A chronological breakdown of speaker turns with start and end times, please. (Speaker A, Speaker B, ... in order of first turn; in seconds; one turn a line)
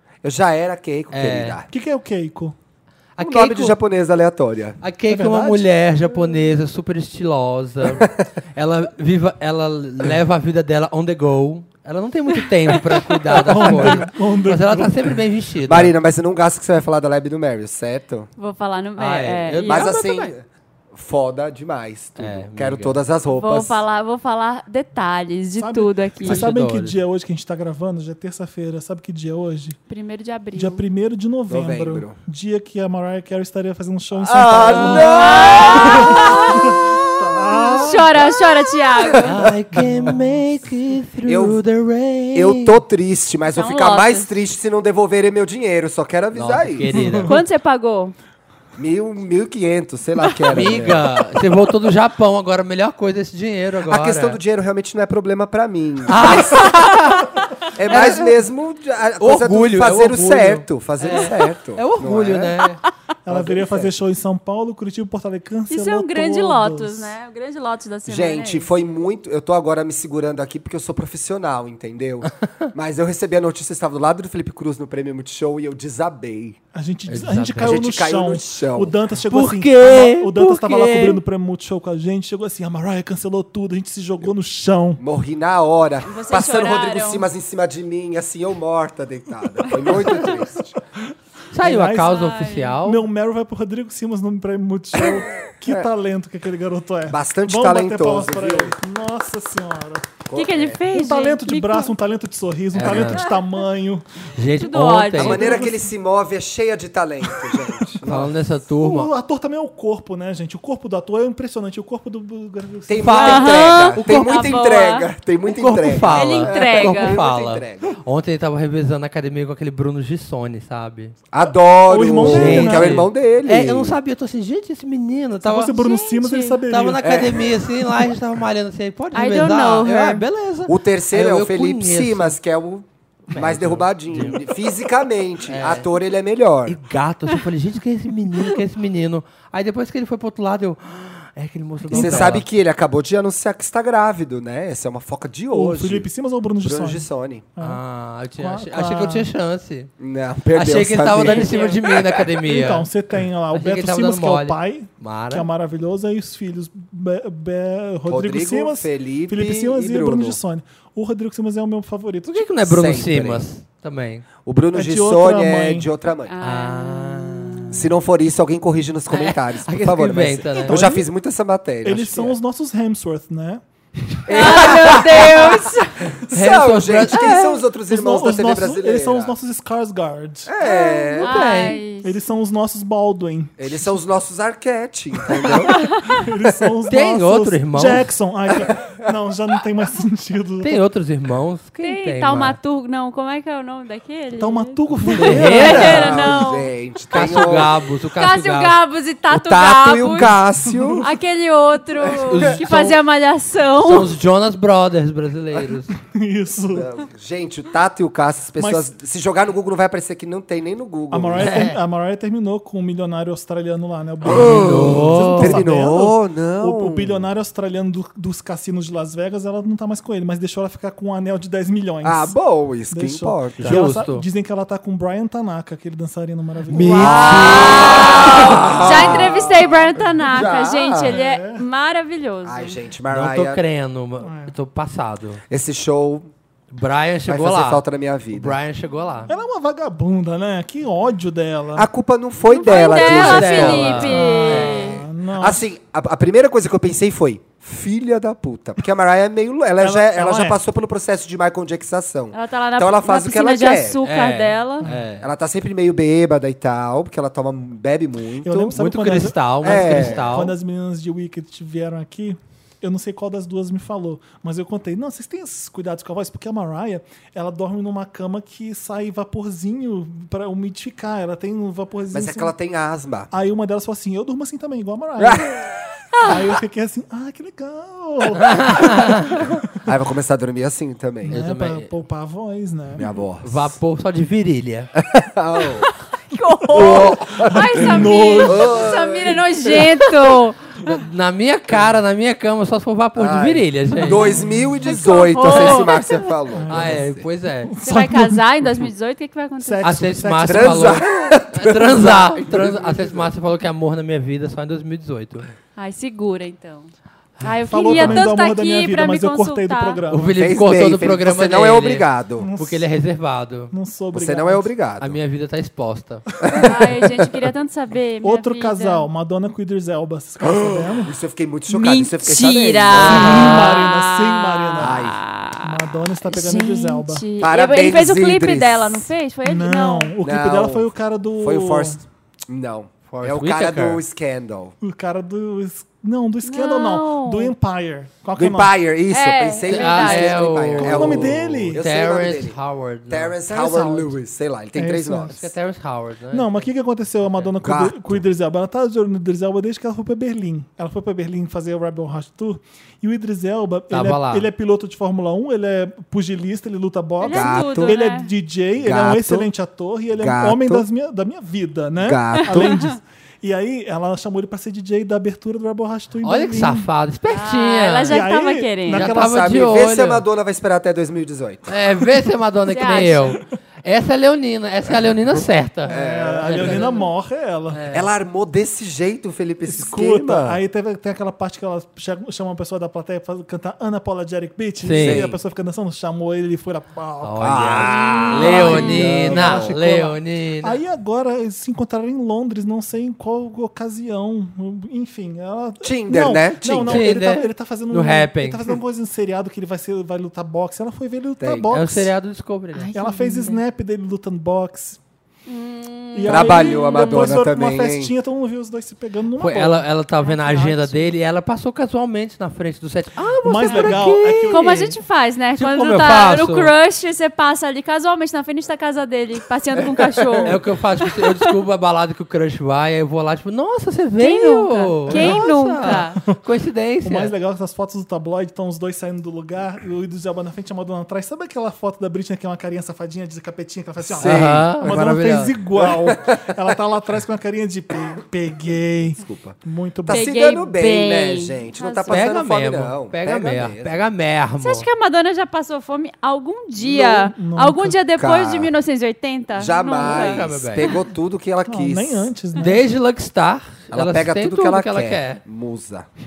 Speaker A: 0.2-1.7
Speaker B: 1.1-1.6
Speaker C: 1.7-2.5
Speaker B: 3.2-3.8
Speaker A: 3.2-4.8
Speaker B: 4.8-15.9
Speaker C: 5.1-5.7
Speaker A: 7.9-8.2
Speaker C: 13.3-15.2
Speaker A: 15.7-18.3
Speaker D: 18.4-19.9
Speaker B: 19.0-20.3
Speaker A: 19.6-23.8
Speaker B: 22.2-23.0
Speaker D: 23.3-26.5
Speaker C: 25.6-29.8
Speaker B: 26.2-27.0
Speaker D: 29.9-30.8
Speaker C: 30.6-38.3
Speaker A: 31.5-32.2
Speaker A: 34.1-39.2
Speaker D: 34.5-37.0
Speaker D: 37.7-39.4
Speaker B: 39.2-42.8
Speaker C: 39.8-40.4
Speaker A: 41.2-41.6
Speaker A: 42.3-47.2
Speaker D: 43.5-44.4
Speaker B: 46.3-47.4
Speaker C: 46.9-47.4
Speaker D: 47.2-48.1
Speaker A: 48.8-51.1
Speaker B: 50.5-54.4
Speaker A: 53.8-56.8
Speaker B: 56.1-57.3
Speaker A: 57.7-62.6
Speaker B: 57.9-58.4
Speaker B: 59.2-62.8
Speaker C: 63.2-67.2
Speaker A: 63.3-64.0
Speaker D: 65.7-68.7
Speaker A: 68.1-76.6
Speaker C: 76.7-85.0
Speaker B: 77.1-77.8
Speaker A: 77.6-79.0
Speaker B: 79.3-81.2
Speaker A: 85.0-90.8
Speaker D: 86.0-87.3
Speaker B: 91.5-93.0
Speaker C: 91.6-92.1
Speaker D: 92.0-92.8
Speaker C: 92.8-100.2
Speaker A: 95.0-95.9
Speaker A: 97.1-98.8
Speaker A: 100.3-100.8
Speaker D: 100.3-101.9
Speaker C: 100.9-104.1
Speaker B: 102.7-103.2
Speaker D: 103.0-103.5
Speaker B: 104.4-105.6
Speaker D: 104.6-105.6
Speaker A: 105.2-108.3
Speaker C: 105.3-105.9
Speaker B: 108.0-109.1
Speaker C: 108.8-113.6
Speaker A: 112.9-117.9
Speaker B: 113.0-114.5
Speaker D: 113.2-115.1
Speaker B: 115.5-121.1
Speaker D: 116.0-117.2
Speaker A: 121.3-124.0
Speaker C: 121.9-123.0
Speaker B: 122.2-125.7
Speaker C: 125.4-127.0
Speaker D: 125.7-126.6
Speaker B: 126.7-132.4
Speaker A: 127.0-127.6
Speaker D: 129.1-130.2
Speaker A: 130.7-136.8
Speaker B: 133.3-134.4
Speaker B: 135.5-135.9
Speaker B: 136.7-142.4
Speaker C: 141.9-142.4
Speaker A: 141.9-146.1
Speaker C: 145.5-147.1
Speaker A: 146.6-147.4
Speaker B: 147.6-149.9
Speaker C: 148.4-149.3
Speaker A: 150.0-152.2
Speaker B: 150.5-152.9
Speaker D: 151.3-151.8
Speaker C: 152.4-162.5
Speaker B: 153.5-155.5
Speaker A: 158.1-160.4
Speaker B: 162.3-164.2
Speaker A: 162.6-163.4
Speaker A: 164.4-166.3
Speaker C: 164.7-165.9
Speaker D: 166.3-167.7
Speaker B: 166.4-167.9
Speaker A: 167.7-172.4
Speaker B: 169.1-170.8
Speaker C: 170.6-171.1
Speaker C: 171.8-174.5
Speaker A: 174.3-175.7
Speaker D: 174.3-176.1
Speaker A: 176.2-179.3
Speaker B: 176.3-177.6
Speaker C: 177.9-180.5
Speaker A: 180.4-181.5
Speaker D: 180.6-182.2
Speaker B: 181.2-181.8
Speaker C: 182.0-184.0
Speaker A: 183.6-185.9
Speaker D: 185.7-186.2
Speaker C: 186.1-190.8
Speaker B: 186.9-188.1
Speaker B: 190.6-192.6
Speaker D: 191.8-200.4
Speaker C: 194.4-196.5
Speaker B: 195.1-196.2
Speaker A: 196.0-197.7
Speaker B: 197.1-198.8
Speaker A: 199.3-201.1
Speaker C: 200.7-201.1
Speaker D: 201.0-204.1
Speaker A: 202.0-202.3
Speaker B: 202.2-203.0
Speaker B: 203.8-205.9
Speaker C: 206.1-206.9
Speaker A: 206.7-211.7
Speaker C: 208.6-208.9
Speaker C: 211.1-222.3
Speaker B: 211.4-211.8
Speaker A: 214.2-217.2
Speaker B: 214.3-215.7
Speaker A: 222.0-223.8
Speaker C: 222.9-227.8
Speaker B: 223.6-224.2
Speaker B: 226.7-228.3
Speaker D: 226.8-232.8
Speaker A: 227.0-229.6
Speaker C: 228.4-230.0
Speaker A: 230.3-231.2
Speaker C: 231.0-231.6
Speaker A: 232.4-233.6
Speaker B: 233.1-235.4
Speaker C: 234.2-234.5
Speaker A: 235.5-236.3
Speaker B: 236.7-239.3
Speaker A: 237.2-238.6
Speaker C: 239.3-241.9
Speaker A: 241.8-243.9
Speaker D: 242.5-245.0
Speaker C: 242.6-245.6
Speaker B: 242.9-244.9
Speaker A: 245.4-254.0
Speaker C: 249.8-250.6
Speaker D: 252.3-254.8
Speaker B: 254.0-255.3
Speaker A: 255.2-258.8
Speaker C: 258.4-272.5
Speaker B: 258.7-260.5
Speaker A: 259.6-260.3
Speaker A: 272.1-273.3
Speaker C: 273.3-275.6
Speaker A: 275.2-275.6
Speaker D: 276.1-276.5
Speaker C: 276.2-279.9
Speaker B: 278.5-279.0
Speaker A: 279.9-281.4
Speaker C: 281.2-283.2
Speaker B: 281.3-281.9
Speaker A: 282.9-283.7
Speaker B: 283.4-284.9
Speaker A: 285.0-285.9
Speaker D: 285.8-291.0
Speaker C: 286.7-288.9
Speaker A: 286.7-289.9
Speaker B: 290.9-294.3
Speaker A: 293.2-297.2
Speaker C: 293.9-295.0
Speaker D: 294.8-296.2
Speaker C: 296.5-297.1
Speaker B: 296.7-297.7
Speaker C: 297.6-298.9
Speaker D: 297.8-300.0
Speaker C: 299.6-301.0
Speaker B: 299.8-305.5
Speaker A: 300.4-303.3
Speaker D: 305.8-306.9
Speaker D: 307.4-310.0
Speaker C: 307.6-310.2
Speaker B: 310.1-313.7
Speaker A: 310.4-312.5
Speaker C: 312.4-312.9
Speaker C: 313.7-314.7
Speaker A: 314.1-315.2
Speaker B: 315.0-316.2
Speaker A: 316.4-317.1
Speaker D: 316.6-319.1
Speaker C: 318.2-321.1
Speaker A: 320.4-323.7
Speaker D: 321.7-330.1
Speaker C: 322.9-327.2
Speaker A: 324.8-325.2
Speaker A: 327.4-329.1
Speaker C: 329.4-332.0
Speaker A: 330.2-334.8
Speaker B: 333.1-334.0
Speaker C: 334.8-338.7
Speaker D: 336.4-337.6
Speaker A: 338.4-342.6
Speaker D: 339.1-340.8
Speaker B: 339.7-344.2
Speaker C: 340.8-341.8
Speaker A: 343.1-345.5
Speaker C: 344.8-345.4
Speaker B: 345.3-346.7
Speaker C: 346.3-366.9
Speaker B: 347.2-347.5
Speaker A: 347.6-348.2
Speaker B: 353.9-354.5
Speaker D: 357.2-358.3
Speaker A: 357.2-358.0
Speaker A: 358.8-359.5
Speaker A: 360.1-360.9
Speaker A: 362.0-362.7
Speaker D: 362.3-362.9
Speaker B: 366.2-368.2
Speaker D: 367.3-369.1
Speaker C: 368.1-369.6
Speaker B: 368.9-370.2
Speaker A: 369.0-371.7
Speaker B: 371.7-377.0
Speaker D: 372.7-373.4
Speaker C: 375.9-377.8
Speaker A: 375.9-377.0
Speaker B: 377.7-378.1
Speaker A: 377.9-380.6
Speaker C: 379.6-402.1
Speaker B: 384.8-385.2
Speaker A: 385.0-385.4
Speaker B: 387.2-390.8
Speaker A: 387.4-389.8
Speaker D: 388.5-389.0
Speaker A: 395.8-397.1
Speaker B: 396.9-398.6
Speaker A: 401.4-401.8
Speaker B: 401.7-402.9
Speaker D: 402.7-403.6
Speaker C: 402.9-405.0
Speaker D: 405.5-407.5
Speaker C: 406.1-411.2
Speaker A: 406.2-408.1
Speaker B: 409.4-414.7
Speaker C: 413.4-415.0
Speaker D: 414.5-421.5
Speaker B: 415.6-416.7
Speaker A: 419.8-420.5
Speaker B: 420.4-427.3
Speaker D: 424.2-426.2
Speaker C: 425.1-426.1
Speaker C: 427.0-440.3
Speaker A: 434.0-435.0
Speaker B: 434.2-435.5
Speaker A: 435.8-436.4
Speaker A: 439.2-444.0
Speaker D: 440.1-442.3
Speaker B: 442.1-444.9
Speaker D: 444.6-451.0
Speaker C: 446.9-448.0
Speaker A: 448.1-448.7
Speaker A: 449.6-452.3
Speaker B: 450.0-450.9
Speaker C: 451.7-452.8
Speaker B: 452.6-455.4
Speaker A: 453.9-456.1